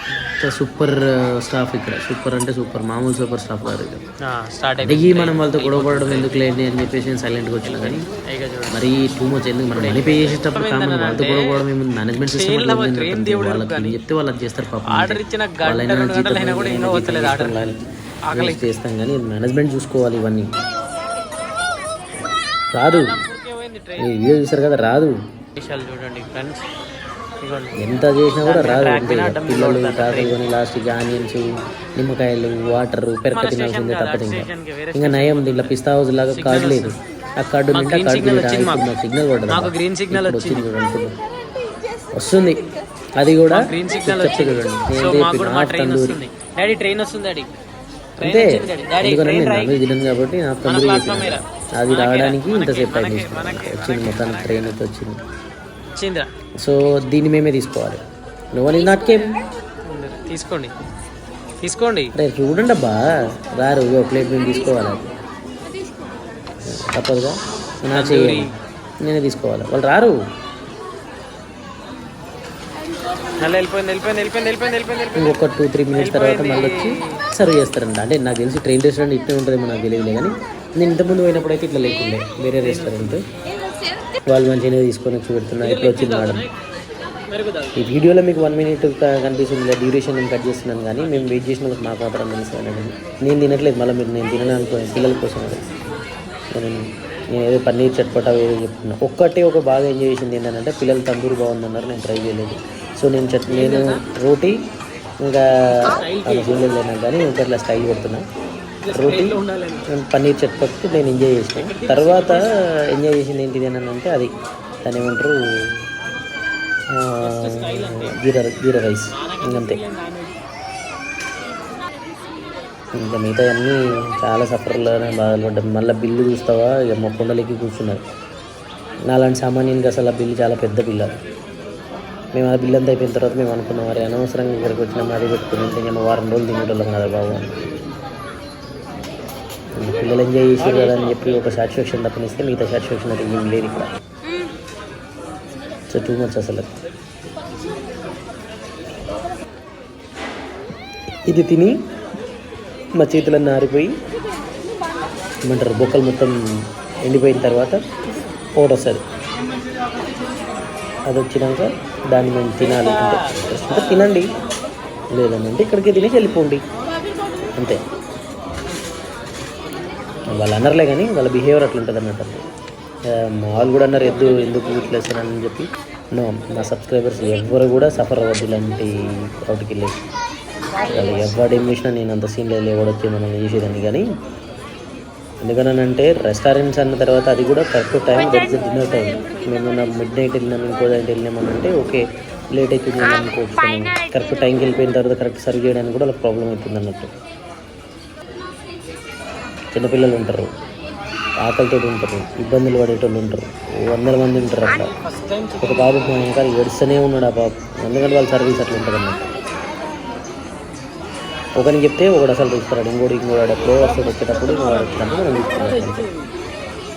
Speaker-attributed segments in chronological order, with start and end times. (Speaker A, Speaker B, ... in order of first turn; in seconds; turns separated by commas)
Speaker A: 0.4-4.0, Speaker B: 4.2-6.3, Speaker A: 4.8-8.1, Speaker B: 7.6-8.9, Speaker A: 8.7-20.5, Speaker B: 9.7-11.6, Speaker B: 12.3-14.0, Speaker B: 14.8-17.8, Speaker B: 18.3-18.7, Speaker A: 22.7-23.1, Speaker B: 22.8-24.3, Speaker A: 24.0-25.1, Speaker B: 25.6-26.7, Speaker B: 27.4-27.8, Speaker A: 27.8-41.2, Speaker B: 28.4-30.4, Speaker B: 33.3-35.7, Speaker B: 36.3-36.9, Speaker B: 37.7-38.9, Speaker B: 39.5-40.7, Speaker A: 42.1-46.2, Speaker B: 43.5-47.5, Speaker A: 48.2-55.2, Speaker B: 48.2-49.8, Speaker B: 50.6-54.8, Speaker B: 55.9-56.3, Speaker A: 56.6-58.0, Speaker A: 58.5-59.4, Speaker B: 59.8-60.7, Speaker B: 61.6-62.1, Speaker A: 62.1-65.1, Speaker A: 66.7-68.5, Speaker B: 67.9-68.5, Speaker A: 69.0-70.2, Speaker B: 73.3-75.4, Speaker A: 75.1-83.2, Speaker B: 75.9-77.2, Speaker B: 82.6-83.2, Speaker A: 84.2-86.5, Speaker B: 85.6-86.5, Speaker B: 87.3-87.9, Speaker A: 87.7-95.7, Speaker A: 96.5-104.6, Speaker B: 103.5-104.0, Speaker A: 105.2-108.2, Speaker B: 105.7-106.7, Speaker B: 108.8-109.9, Speaker A: 108.9-114.3, Speaker B: 111.6-112.5, Speaker A: 114.8-115.4, Speaker A: 116.9-119.8, Speaker B: 117.2-118.2, Speaker B: 119.1-120.4, Speaker A: 122.9-128.0, Speaker A: 129.1-131.1, Speaker A: 132.3-137.6, Speaker A: 139.7-143.9, Speaker B: 140.6-141.4, Speaker A: 145.9-146.7, Speaker A: 151.2-151.8, Speaker A: 152.9-153.9, Speaker A: 155.4-156.3, Speaker A: 157.0-157.8, Speaker A: 158.6-159.0, Speaker A: 161.1-164.3, Speaker B: 162.6-164.0, Speaker A: 165.1-166.6, Speaker A: 167.5-167.8, Speaker A: 170.3-172.4, Speaker A: 173.1-179.9, Speaker A: 180.8-184.0, Speaker B: 180.8-181.2, Speaker A: 185.4-197.1, Speaker A: 199.7-200.5, Speaker A: 201.4-204.9, Speaker B: 204.6-206.3, Speaker A: 205.6-209.3, Speaker A: 211.6-216.1, Speaker B: 213.5-216.3